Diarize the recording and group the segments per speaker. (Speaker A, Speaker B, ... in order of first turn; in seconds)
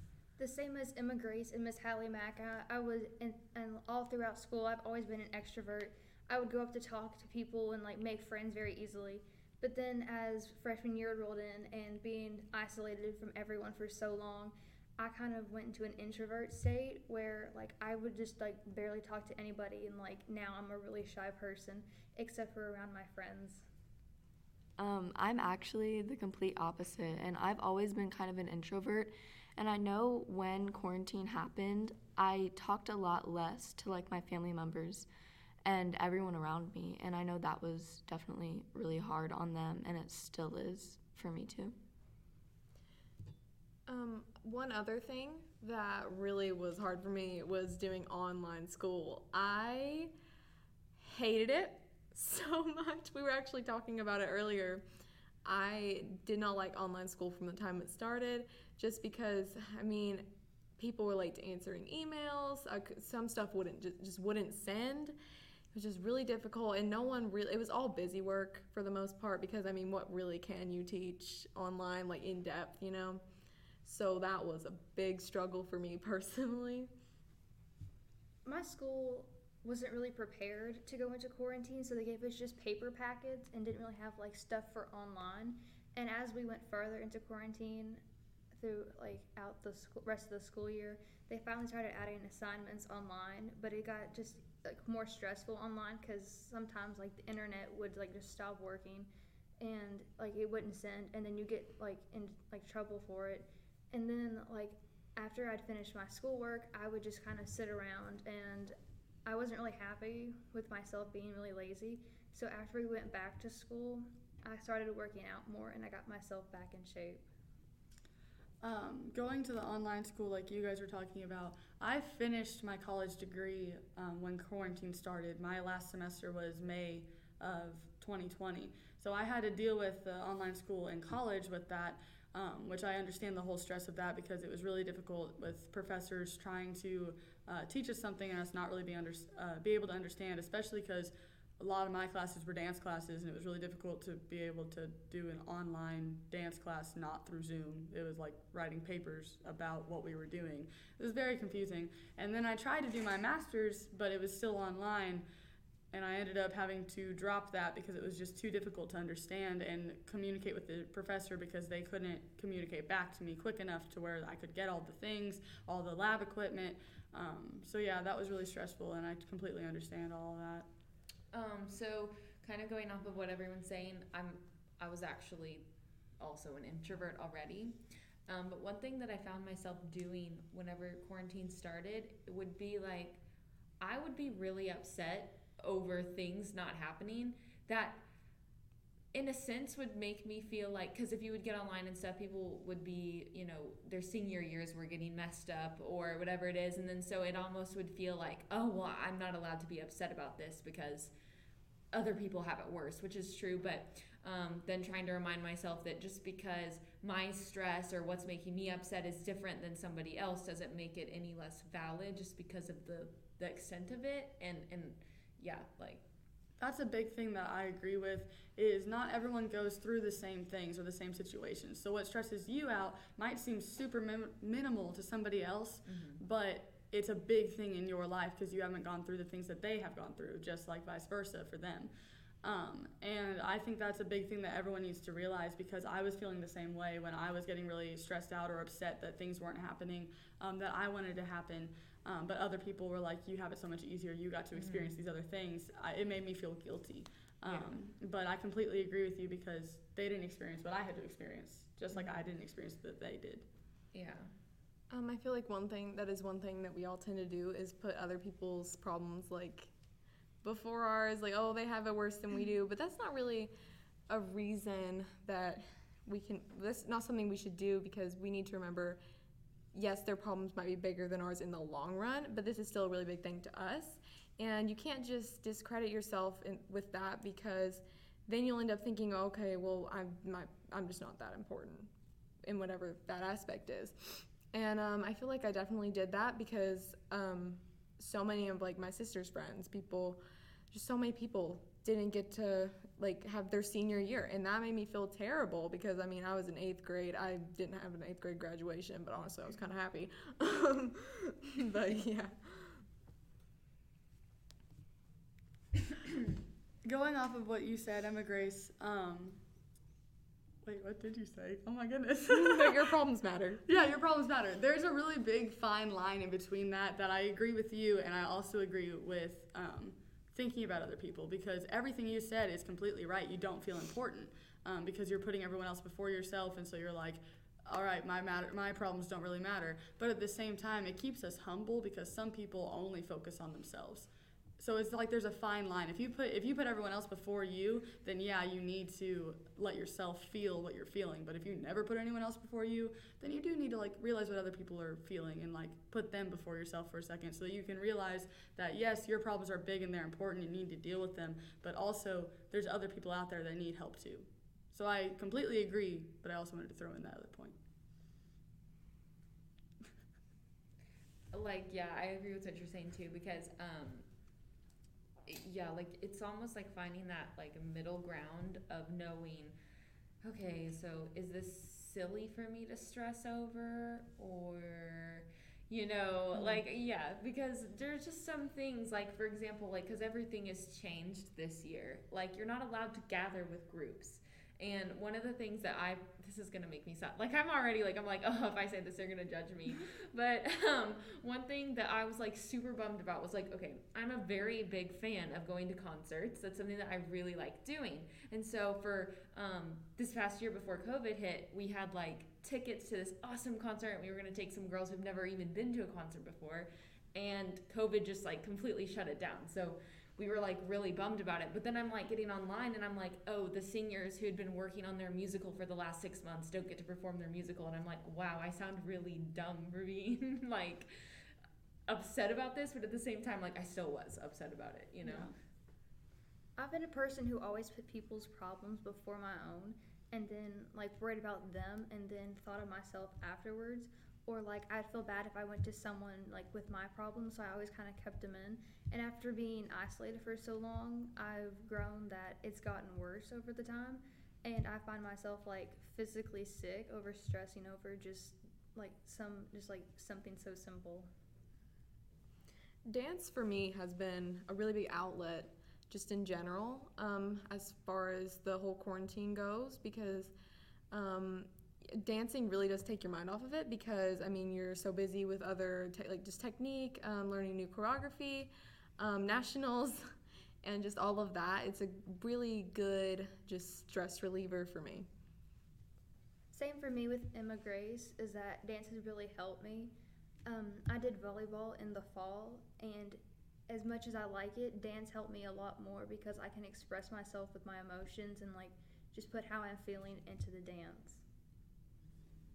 Speaker A: 0.4-23.6, 78.4-88.0, 88.5-117.2, 426.6-451.1, 476.5-479.9, 480.4-491.2
Speaker B: 24.8-35.1, 35.6-41.8
Speaker C: 43.9-50.1, 51.0-54.8, 55.4-65.2, 65.7-73.2, 73.8-76.9, 254.9-259.7, 260.4-263.5, 264.1-269.0, 269.7-281.9, 282.4-302.8, 312.3-313.6, 452.9-460.3, 460.9-470.1, 470.6-475.1
Speaker D: 118.6-155.2, 155.9-170.7, 216.6-231.9, 232.4-253.5, 306.8-309.4, 310.6-312.9, 313.6-357.6
Speaker E: 171.3-175.7, 176.2-183.2, 183.8-188.0, 189.1-201.1, 201.9-216.0, 225.9-226.2, 244.5-244.9, 247.4-247.7, 253.9-254.3, 361.3-364.1, 365.2-369.5, 370.2-421.3, 421.9-425.3